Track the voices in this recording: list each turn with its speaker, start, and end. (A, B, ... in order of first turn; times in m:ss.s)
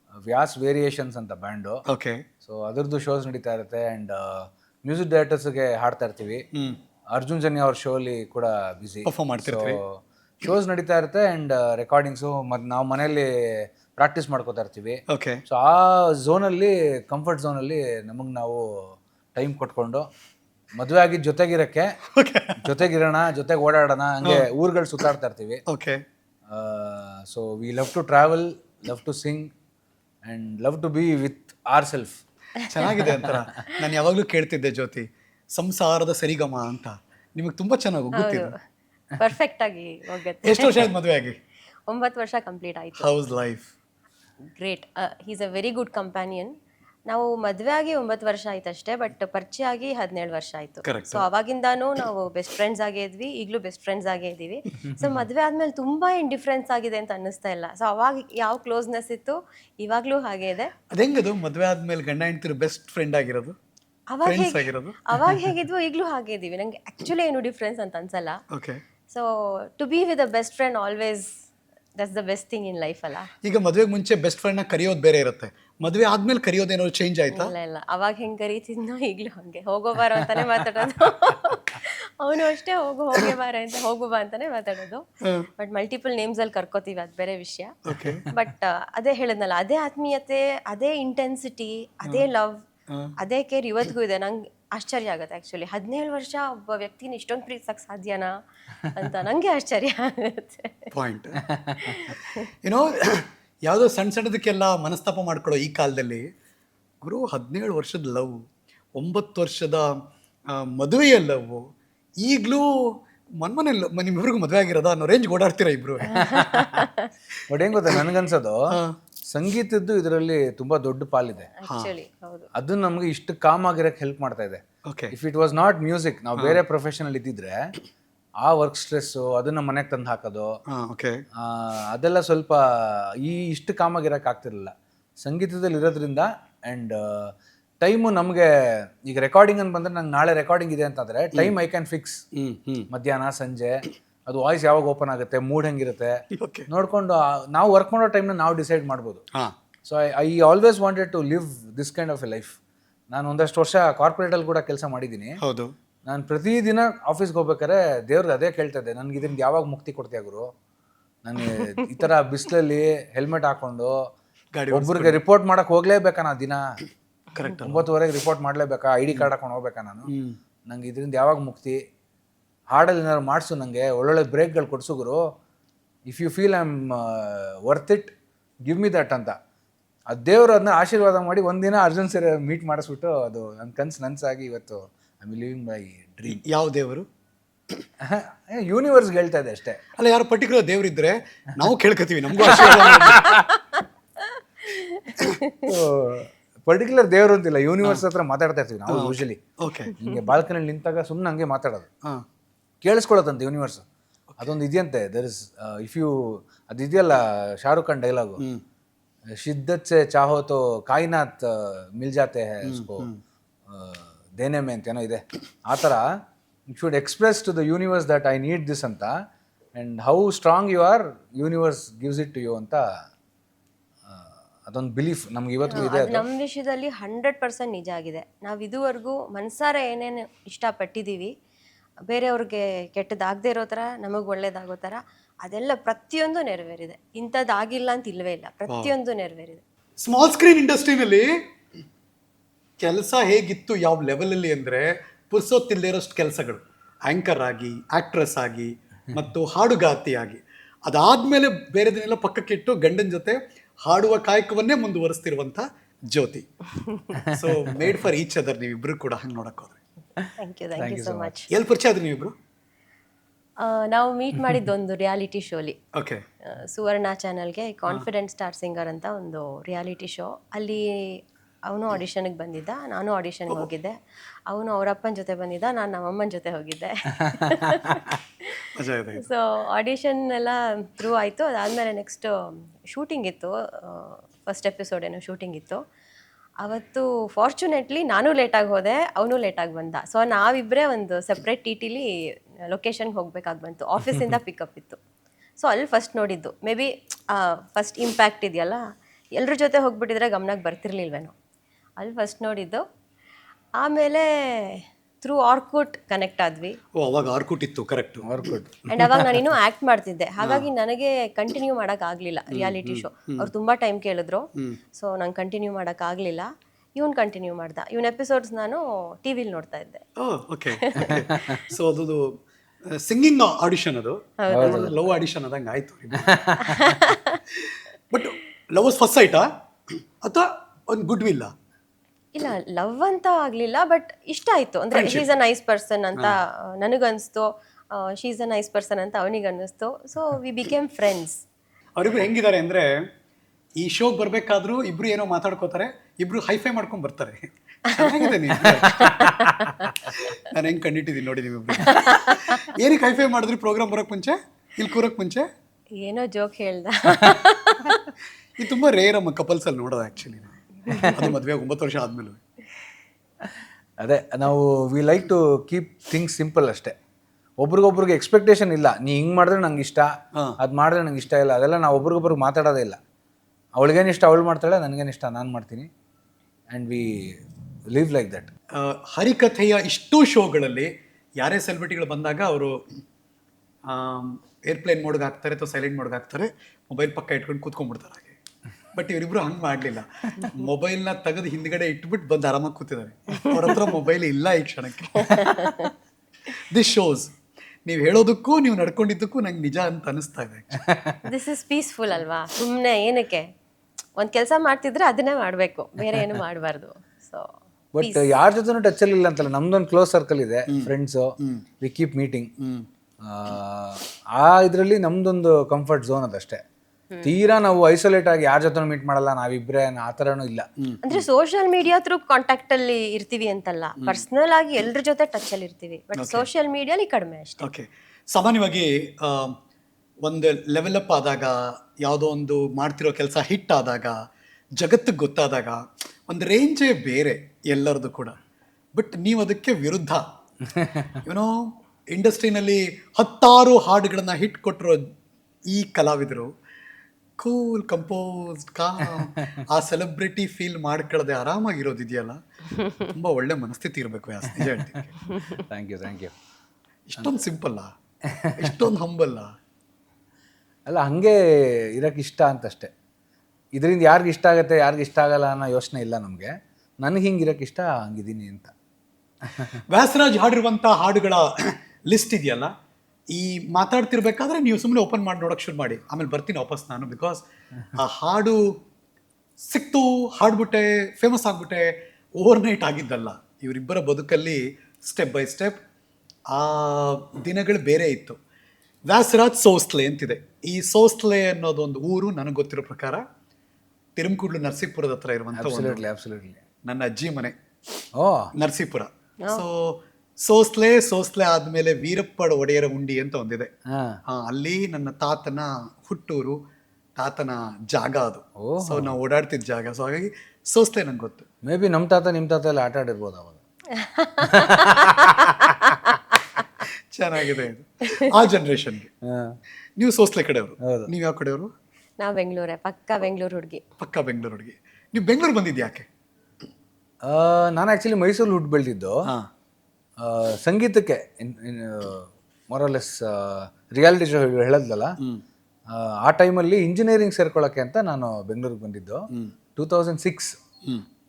0:00.2-0:01.8 A
0:01.9-0:02.2 B
0:02.4-0:06.4 A
0:06.5-0:06.8 B
0:07.1-0:20.0 A
0:09.0-0:09.8 B
0:15.1-0:15.4 B
0:20.8-0:22.0 A
0:22.1-0:22.6 B
0:22.6-0:25.6 A
0:25.7-0:26.0 B
0:26.5-0:29.5 A
0:30.2-0:32.2 A
0:32.7-0:38.5 B
0:38.1-0:38.5 C
0:39.1-0:40.9 C
0:40.4-0:41.4 B
0:41.9-0:43.1 C
0:43.0-0:43.7 B
0:44.4-0:46.5 C
0:47.1-1:00.7 C
0:50.8-0:51.2 B
1:00.9-1:03.6 B
1:04.1-1:08.4 C
1:04.2-1:05.4 B
1:08.5-1:08.8 B
1:09.1-1:11.3 C
1:12.0-1:13.3 C
1:13.4-1:17.5 B
1:17.3-1:25.0 C
1:25.6-1:27.8 C
1:27.8-1:28.2 B
1:28.3-1:32.6 C
1:32.9-1:33.1 B
1:33.2-1:40.9 C
1:40.9-1:41.4 B
1:41.5-1:42.0 A
1:41.8-1:42.5 C
1:42.6-1:46.3 B
1:47.0-1:48.4 B
1:49.0-1:50.0 B
1:50.5-1:51.6 B
1:52.2-1:56.4 B
1:56.1-1:56.7 A
1:56.2-1:57.1 C
1:57.5-1:58.7 A
1:58.7-1:59.0 B
1:59.3-2:01.5 A
2:01.6-2:02.5 C
2:02.5-2:07.7 A
2:04.9-2:05.1 B
2:08.4-2:10.5 A
2:10.7-2:11.2 B
2:11.4-2:18.5 A
2:19.0-2:22.2 A
2:22.3-2:22.9 B
2:22.9-2:26.1 A
2:26.3-2:26.7 B
2:26.7-2:29.2 A
2:29.8-2:32.6 A
2:33.1-2:35.4 A
2:35.4-2:35.7 B
2:36.1-2:40.5 A
2:41.2-2:44.0 A
2:44.5-2:45.2 B
2:44.7-2:46.6 A
2:47.3-2:47.9 B
2:47.6-2:50.1 A
2:50.1-2:50.4 B
2:50.7-2:51.8 A
2:52.7-2:55.2 A
2:56.0-2:58.1 A
2:58.6-2:59.3 A
3:00.1-3:06.4 A
3:06.3-3:07.1 B
3:08.0-3:09.8 A
3:10.0-3:13.3 B
3:12.5-3:13.4 A
3:13.3-3:15.7 C
3:15.6-3:19.4 A
3:18.9-3:19.9 B
3:19.9-3:21.9 A
3:22.8-3:23.8 A
3:24.4-3:28.4 A
3:29.4-3:33.1 A
3:32.6-3:33.2 B
3:33.7-3:36.0 A
3:36.7-3:39.1 A
3:39.7-3:42.8 A
3:44.1-3:46.2 A
3:45.7-3:51.3 C
3:52.1-3:59.6 C
3:58.7-3:58.9 B
4:00.0-4:01.3 B
4:02.8-4:16.4 B
4:16.8-4:17.2 C
4:17.3-4:19.8 B
4:17.3-4:17.8 A
4:20.2-4:21.3 A
4:20.4-4:21.5 C
4:21.5-4:22.3 B
4:23.6-4:25.8 C
4:25.9-4:26.2 B
4:26.4-4:34.0 C
4:34.5-4:45.8 C
4:38.7-4:39.3 B
4:46.6-4:52.1 C
4:52.6-4:55.0 C
4:55.6-4:58.8 C
4:59.3-5:01.3 C
5:02.0-5:02.8 C
5:03.8-5:06.8 C
5:06.9-5:08.5 B
5:08.2-5:09.3 A
5:08.9-5:20.0 C
5:10.4-5:10.7 B
5:12.5-5:13.5 B
5:20.2-5:26.5 B
5:20.8-5:21.7 C
5:21.1-5:21.6 A
5:24.4-5:25.0 C
5:24.5-5:25.0 A
5:26.1-5:26.9 A
5:26.6-5:27.4 C
5:27.5-5:31.5 B
5:32.3-5:41.4 C
5:34.9-5:35.2 B
5:42.0-5:43.0 B
5:43.8-5:49.2 B
5:47.9-5:50.1 C
5:48.9-5:49.7 A
5:50.1-5:55.5 B
5:51.8-5:52.7 C
5:56.0-5:58.1 C
5:58.6-6:02.4 B
6:04.0-6:06.9 A
6:07.6-6:13.0 A
6:13.8-6:15.9 A
6:16.7-6:17.4 A
6:17.9-6:18.5 A
6:18.8-6:22.8 B
6:23.9-6:28.4 B
6:28.9-6:35.6 B
6:35.2-6:35.9 C
6:36.5-6:37.3 B
6:37.8-6:40.8 B
6:40.9-6:41.2 A
6:41.2-6:43.5 C
6:44.2-6:47.5 C
6:47.9-6:52.5 A
6:48.0-6:48.3 C
6:50.7-6:51.6 B
6:52.6-6:52.9 B
6:53.2-6:56.6 A
6:57.2-7:00.7 A
7:00.8-7:01.2 B
7:01.0-7:07.6 C
7:06.2-7:06.5 B
7:07.6-7:09.6 B
7:10.2-7:14.2 B
7:14.8-7:18.4 B
7:18.9-7:20.2 B
7:20.7-7:21.1 A
7:21.2-7:25.0 B
7:25.7-7:26.5 B
7:27.4-7:32.4 B
7:32.9-7:35.1 B
7:35.3-7:36.3 A
7:37.1-7:37.9 B
7:38.6-7:39.5 B
7:40.9-7:42.9 A
7:43.7-7:48.7 A
7:49.9-7:52.7 B
7:53.3-7:57.4 B
7:58.0-7:58.8 B
7:59.6-8:05.8 B
8:06.5-8:08.4 B
8:09.1-8:13.2 B
8:14.2-8:16.0 B
8:15.5-8:16.6 A
8:16.8-8:17.5 B
8:18.2-8:18.5 A
8:18.6-8:23.7 B
8:23.9-8:24.2 A
8:24.3-8:26.6 B
8:27.2-8:31.4 B
8:28.6-8:29.1 A
8:31.6-8:33.6 A
8:34.0-8:35.9 C
8:34.4-8:35.7 A
8:37.1-8:39.1 B
8:39.2-8:39.6 A
8:40.0-8:41.7 B
8:40.8-8:41.1 A
8:42.2-8:43.8 C
8:44.0-8:46.1 B
8:47.2-8:49.2 A
8:50.2-8:55.1 A
8:55.9-8:59.2 A
8:59.8-9:00.5 A